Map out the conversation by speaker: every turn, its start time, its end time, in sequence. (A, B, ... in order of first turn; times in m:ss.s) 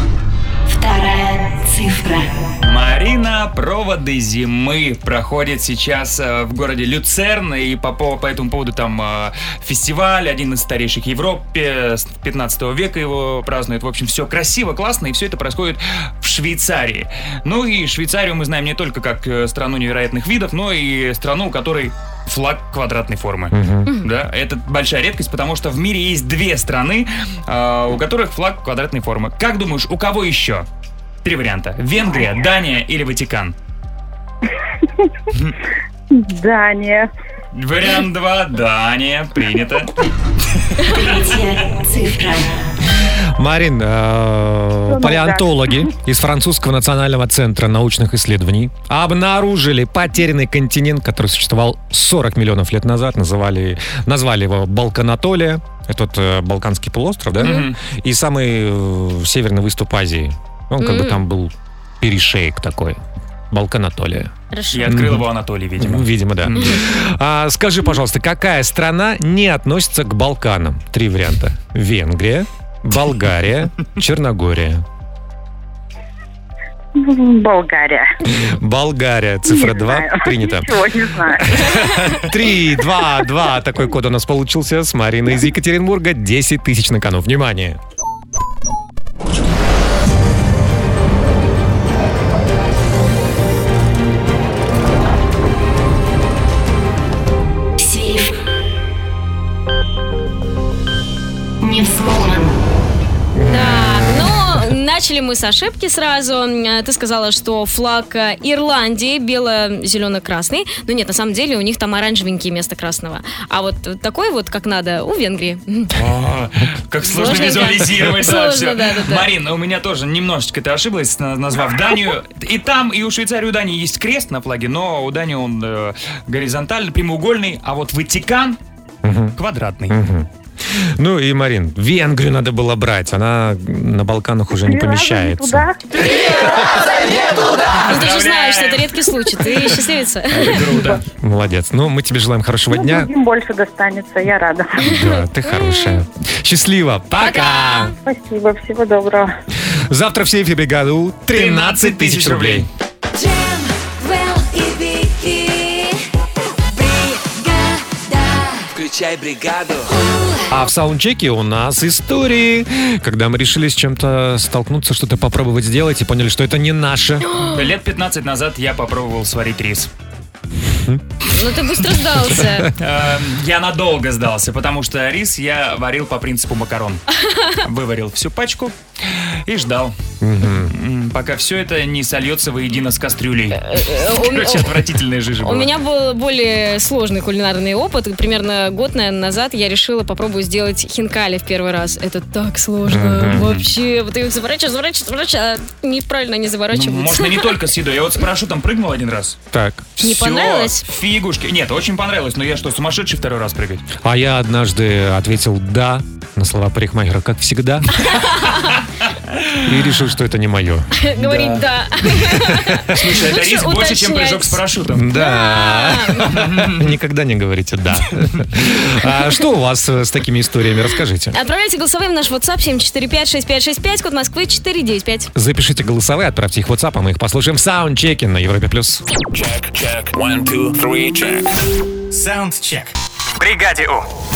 0:00.7-0:02.5 A
0:02.6-0:30.7 B
0:23.5-0:23.9 C
0:31.2-0:33.6 B
0:36.1-0:37.1 D
0:37.5-0:39.9 B
0:40.8-0:42.6 A
0:43.4-1:04.3 C
0:44.9-0:45.6 D
0:57.4-0:57.7 E
0:57.4-0:57.8 B
1:00.8-1:01.2 E
1:04.5-1:04.9 E
1:04.7-1:06.9 B
1:04.9-1:05.3 C
1:05.8-1:14.8 C
1:17.0-1:18.1 D
1:18.3-1:20.8 C
1:19.5-1:21.6 D
1:21.4-1:27.8 C
1:37.8-1:38.4 A
1:41.6-1:42.5 A
1:43.4-1:44.3 C
1:43.4-1:55.9 E
1:56.0-2:08.6 B
1:57.0-1:59.3 E
2:09.0-2:09.4 C
2:09.4-2:10.0 B
2:09.9-2:15.7 C
2:14.6-2:15.8 D
2:17.8-2:18.9 B
2:17.9-2:20.8 E
2:20.3-2:21.0 B
2:21.2-2:23.1 C
2:22.7-2:24.7 D
2:24.8-2:26.0 E
2:24.8-2:27.9 C
2:27.2-2:27.9 E
2:28.0-2:29.3 D
2:29.9-2:32.7 C
2:31.3-2:32.7 B
2:33.1-2:36.0 A
2:36.7-2:38.7 A
2:38.8-2:39.8 F
2:39.9-2:40.5 A
2:40.5-2:47.3 C
2:47.4-2:47.6 E
2:47.5-2:49.9 B
2:51.3-2:52.7 E
2:52.8-2:57.0 B
2:57.6-3:00.0 B
3:00.2-3:00.7 C
3:00.6-3:05.7 B
3:03.6-3:04.7 E
3:05.4-3:17.6 E
3:12.9-3:13.5 C
3:13.3-3:13.6 B
3:16.7-3:19.4 B
3:19.5-3:19.9 C
3:20.0-3:23.8 B
3:20.0-3:20.8 E
3:24.0-3:27.9 C
3:28.1-3:28.7 E
3:29.6-3:30.9 C
3:31.0-3:34.6 E
3:31.2-3:31.7 B
3:32.3-3:33.0 C
3:32.9-3:35.1 B
3:34.9-3:41.4 C
3:35.1-3:36.2 E
3:36.3-3:36.9 B
3:41.3-3:45.3 E
3:45.4-3:49.0 C
3:49.4-3:51.4 F
3:52.1-3:54.1 F